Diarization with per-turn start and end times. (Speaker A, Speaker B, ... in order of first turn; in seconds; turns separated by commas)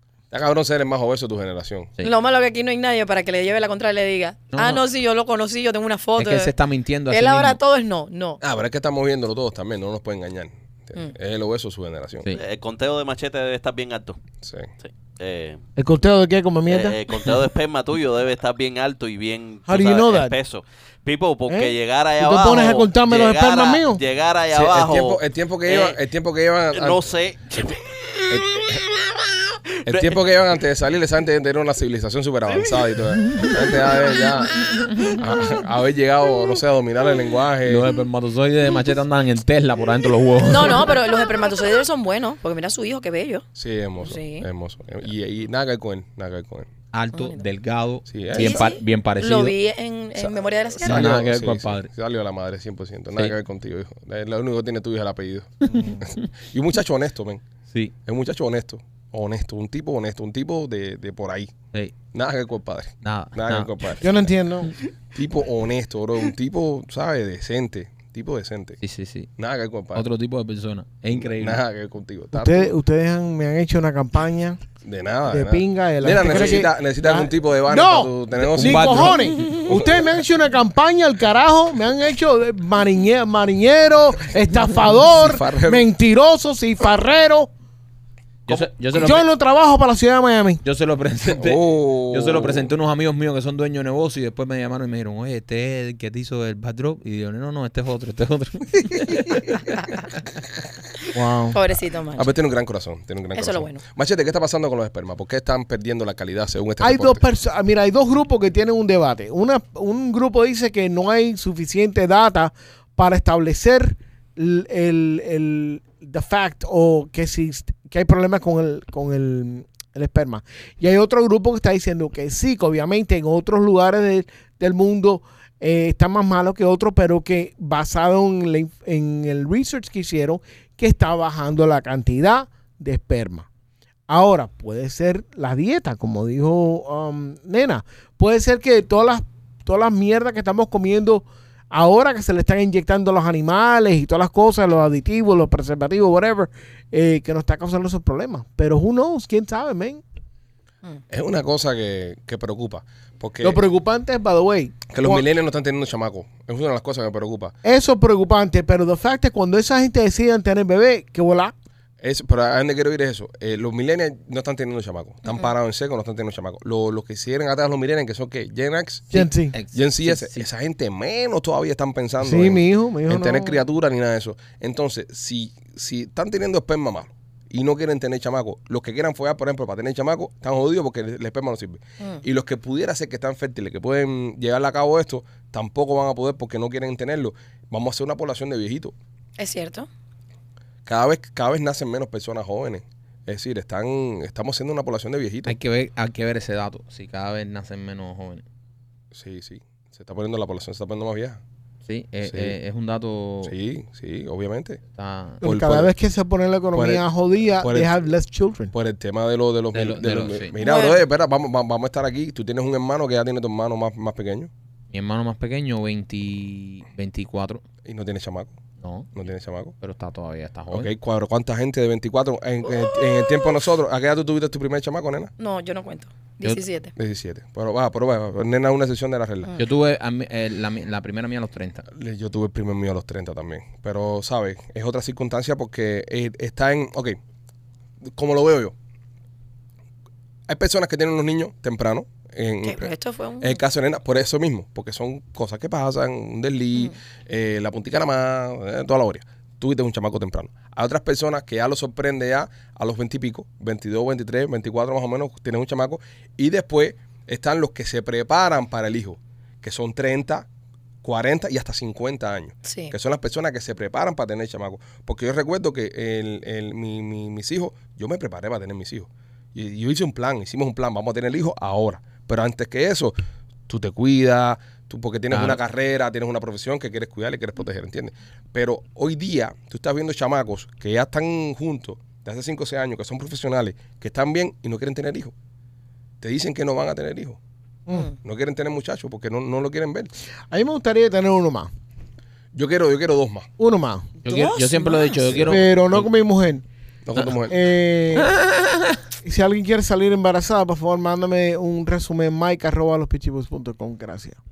Speaker A: 0.3-1.9, Speaker B: 2.0-6.5, Speaker C: 4.5-4.8, Speaker C: 6.2-7.6, Speaker B: 7.1-8.4, Speaker A: 8.4-12.2, Speaker D: 12.3-14.2, Speaker A: 14.4-14.7, Speaker D: 14.8-15.6, Speaker E: 15.8-17.1, Speaker D: 16.7-26.0, Speaker E: 19.7-20.4, Speaker E: 21.5-24.0, Speaker A: 24.5-27.0, Speaker D: 26.7-28.8, Speaker A: 28.3-28.8, Speaker A: 29.8-34.5, Speaker D: 29.9-30.1, Speaker A: 35.1-37.9, Speaker C: 37.6-41.0, Speaker B: 40.4-43.5, Speaker A: 43.5-46.7, Speaker B: 44.0-44.5, Speaker C: 46.9-49.6, Speaker B: 47.1-47.4, Speaker A: 48.0-48.7, Speaker B: 48.3-51.2, Speaker A: 50.2-57.4, Speaker C: 50.8-51.9, Speaker E: 55.7-56.0, Speaker A: 58.0-61.5, Speaker A: 62.1-64.1, Speaker C: 63.0-64.0, Speaker E: 64.0-64.8, Speaker A: 65.1-68.8, Speaker C: 68.8-69.3, Speaker A: 69.4-70.1, Speaker C: 69.9-71.6, Speaker A: 71.1-72.7, Speaker E: 72.3-74.6, Speaker A: 74.8-80.1, Speaker E: 75.3-87.5, Speaker D: 76.3-76.6, Speaker C: 78.5-79.5, Speaker A: 85.2-85.8, Speaker C: 88.5-89.2, Speaker E: 88.5-90.6, Speaker C: 90.6-99.6, Speaker A: 91.3-92.7, Speaker E: 101.1-101.6, Speaker B: 101.5-102.3, Speaker A: 102.2-107.2, Speaker B: 103.3-103.8, Speaker E: 106.8-133.5, Speaker E: 134.1-150.0, Speaker A: 151.1-153.6, Speaker E: 153.4-155.2, Speaker A: 154.9-157.5, Speaker E: 157.6-161.5, Speaker A: 162.0-188.9, Speaker E: 169.1-169.6, Speaker C: 169.5-170.4, Speaker E: 172.2-173.6, Speaker B: 189.4-189.9, Speaker A: 190.8-195.5, Speaker C: 195.4-198.4, Speaker A: 199.1-201.4, Speaker C: 201.8-203.5, Speaker A: 202.2-202.6, Speaker A: 203.4-204.8, Speaker C: 204.9-205.4, Speaker E: 205.4-208.7, Speaker A: 205.4-205.9, Speaker A: 206.7-207.1, Speaker A: 207.6-208.0, Speaker A: 208.7-214.5, Speaker C: 209.7-210.6, Speaker B: 210.6-211.0, Speaker C: 214.9-217.6, Speaker A: 217.8-218.6, Speaker C: 218.8-219.1, Speaker A: 219.1-219.7, Speaker C: 219.8-220.9, Speaker A: 220.7-225.3, Speaker B: 225.4-226.9, Speaker A: 226.9-229.5, Speaker C: 229.6-231.8, Speaker A: 231.9-237.2, Speaker A: 238.0-238.7, Speaker A: 240.5-260.5, Speaker B: 242.6-243.6, Speaker A: 261.0-273.1, Speaker B: 262.6-262.9, Speaker A: 273.7-285.3, Speaker C: 275.3-275.6, Speaker A: 286.2-287.4, Speaker E: 287.9-288.1, Speaker A: 288.2-290.1, Speaker E: 290.5-291.7, Speaker A: 292.5-293.5, Speaker E: 293.6-294.2, Speaker C: 294.2-296.1, Speaker B: 294.3-295.3, Speaker A: 295.2-295.6, Speaker E: 295.4-296.6, Speaker A: 297.1-297.6, Speaker E: 297.5-298.4, Speaker C: 298.1-299.0, Speaker E: 299.2-304.4